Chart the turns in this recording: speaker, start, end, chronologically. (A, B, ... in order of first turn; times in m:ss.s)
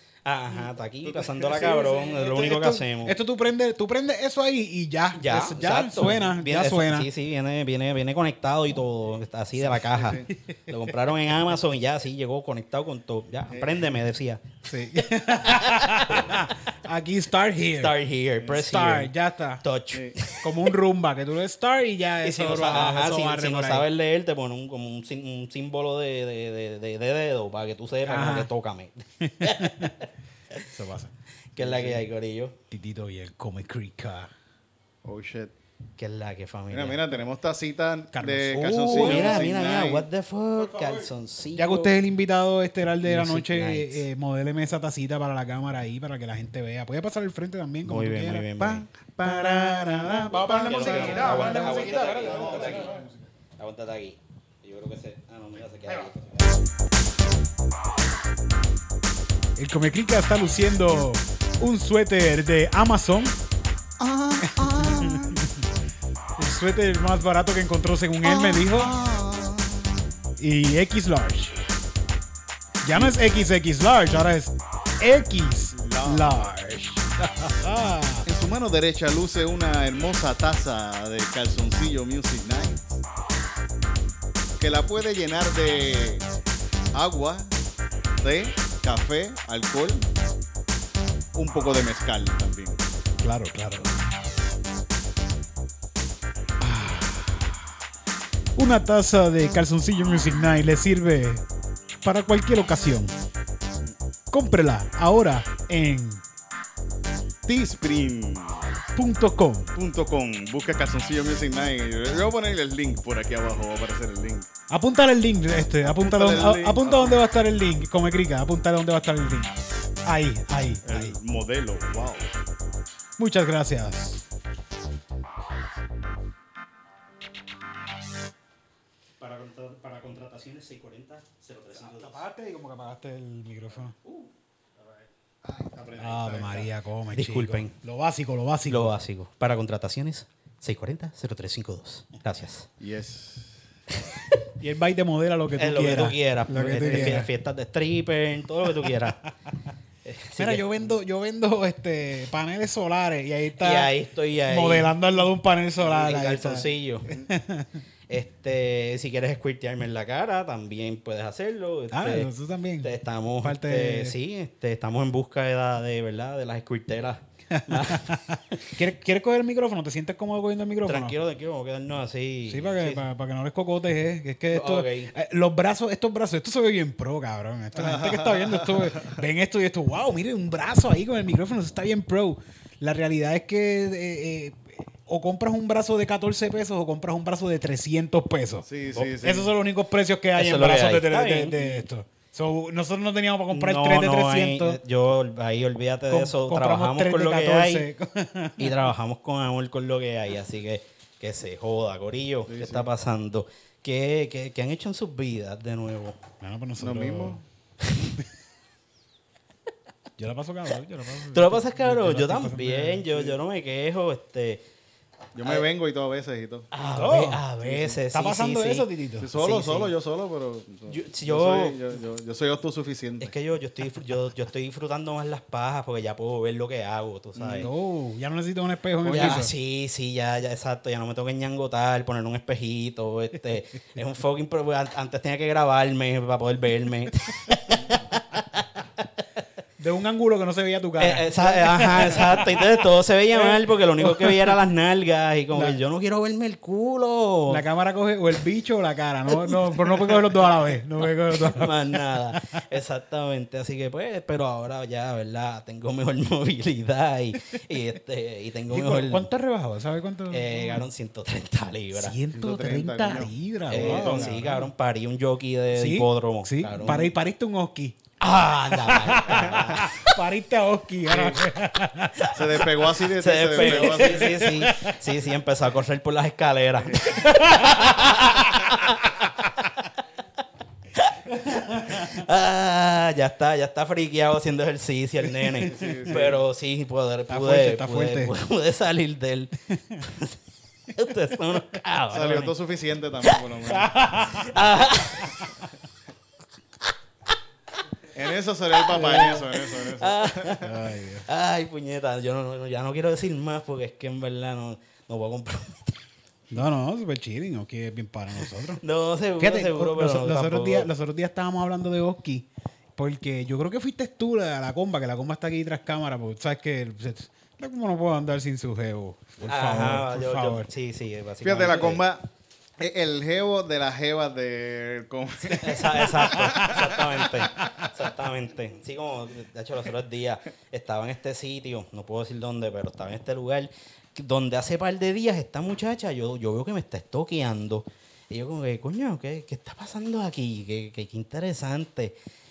0:00.2-0:03.2 A
0:01.0-0:02.8 B
0:02.6-0:07.1 C
0:05.2-0:14.4 A
0:09.8-0:10.3 B
0:13.5-0:13.9 B
0:14.7-0:18.0 C
0:15.5-0:16.4 A
0:17.7-0:20.5 A
0:18.5-0:19.6 C
0:20.4-0:23.9 C
0:22.2-0:30.6 A
0:28.1-0:28.5 C
0:29.2-0:30.0 C
0:30.7-0:31.1 C
0:31.6-0:32.6 A
0:31.6-0:32.1 B
0:32.7-0:34.3 C
0:35.0-0:35.5 B
0:36.0-0:37.1 A
0:36.7-0:40.1 B
0:38.1-0:39.5 C
0:38.6-0:42.0 A
0:41.6-0:53.1 C
0:43.0-0:44.0 A
0:47.8-0:48.9 A
0:49.0-0:53.1 B
0:50.5-0:53.0 A
0:53.6-0:56.5 A
0:59.6-1:03.4 C
1:04.0-1:05.4 B
1:04.4-1:05.6 C
1:06.4-1:08.9 C
1:08.2-1:10.1 B
1:10.4-1:11.6 C
1:12.8-1:18.3 C
1:15.7-1:16.5 B
1:18.3-1:23.0 B
1:24.6-1:26.3 B
1:26.9-1:27.5 B
1:28.2-1:30.1 B
1:31.3-1:32.8 B
1:33.2-1:33.9 C
1:36.6-1:37.7 C
1:38.6-1:41.4 C
1:42.0-1:43.1 C
1:44.3-1:46.2 C
1:47.4-1:48.7 B
1:49.0-1:49.7 C
1:49.7-1:54.5 B
1:54.7-1:59.5 C
1:55.9-1:57.2 B
2:00.1-2:01.2 C
2:00.8-2:02.3 B
2:03.2-2:04.2 C
2:09.2-2:12.2 A
2:11.8-2:14.0 C
2:15.4-2:16.7 B
2:16.0-2:18.9 C
2:17.1-2:17.7 A
2:18.7-2:22.7 A
2:22.8-2:23.6 B
2:24.6-2:27.3 C
2:25.6-2:29.3 A
2:30.0-2:30.8 A
2:30.4-2:33.9 C
2:33.6-2:35.3 A
2:34.4-2:37.8 C
2:35.8-2:37.1 A
2:38.1-2:42.3 A
2:41.9-2:42.9 C
2:42.8-2:48.6 A
2:43.4-2:44.2 C
2:47.5-2:51.2 C
2:50.8-2:53.0 A
2:52.5-3:08.7 C
2:54.5-2:55.1 A
2:57.8-2:59.1 B
3:08.6-3:09.5 B
3:09.2-3:14.8 C
3:10.4-3:11.6 A
3:13.5-3:17.9 A
3:16.1-3:18.9 C
3:18.6-3:26.2 A
3:22.5-3:22.9 B
3:26.4-3:27.4 C
3:26.8-3:27.4 B
3:27.8-3:28.1 A
3:30.2-3:33.1 C
3:31.3-3:34.6 A
3:35.4-3:36.7 B
3:35.4-3:35.7 A
3:36.7-3:39.9 A
3:36.8-3:37.4 C
3:37.6-3:38.0 B
3:38.1-3:39.3 C
3:39.2-3:43.3 B
3:40.9-3:41.8 A
3:43.2-3:47.7 A
3:47.4-3:47.7 B
3:47.6-3:49.5 C
3:49.1-3:58.6 A
3:49.1-3:49.4 B
3:59.8-4:02.8 C
4:01.0-4:07.6 A
4:03.4-4:04.6 C
4:05.5-4:05.8 C
4:07.5-4:12.6 C
4:09.4-4:10.4 A
4:11.3-4:19.3 A
4:18.7-4:20.9 C
4:20.3-4:22.2 A
4:21.9-4:24.7 C
4:22.4-4:24.5 B
4:23.7-4:27.1 A
4:25.7-4:28.0 C
4:28.2-4:30.1 A
4:28.7-4:32.3 C
4:31.1-4:31.4 B
4:32.3-4:34.5 B
4:33.1-4:39.3 A
4:33.5-4:35.0 C
4:36.9-4:37.2 B
4:37.2-4:37.9 C
4:41.0-4:49.5 A
4:45.5-4:46.0 C
4:45.6-4:46.4 B
4:47.3-4:48.3 C
4:49.7-4:50.0 C
4:50.0-4:50.4 A
4:50.9-4:52.6 A
4:52.1-4:53.9 B
4:53.7-4:54.5 C
4:54.2-4:55.5 A
4:58.1-5:00.7 B
4:58.8-5:06.0 A
5:00.6-5:01.3 C
5:06.5-5:08.8 C
5:08.8-5:10.9 A
5:09.4-5:20.7 C
5:19.5-5:22.1 A
5:21.4-5:22.2 B
5:22.8-5:27.2 B
5:25.6-5:42.2 A
5:26.0-5:26.8 C
5:27.6-5:27.9 C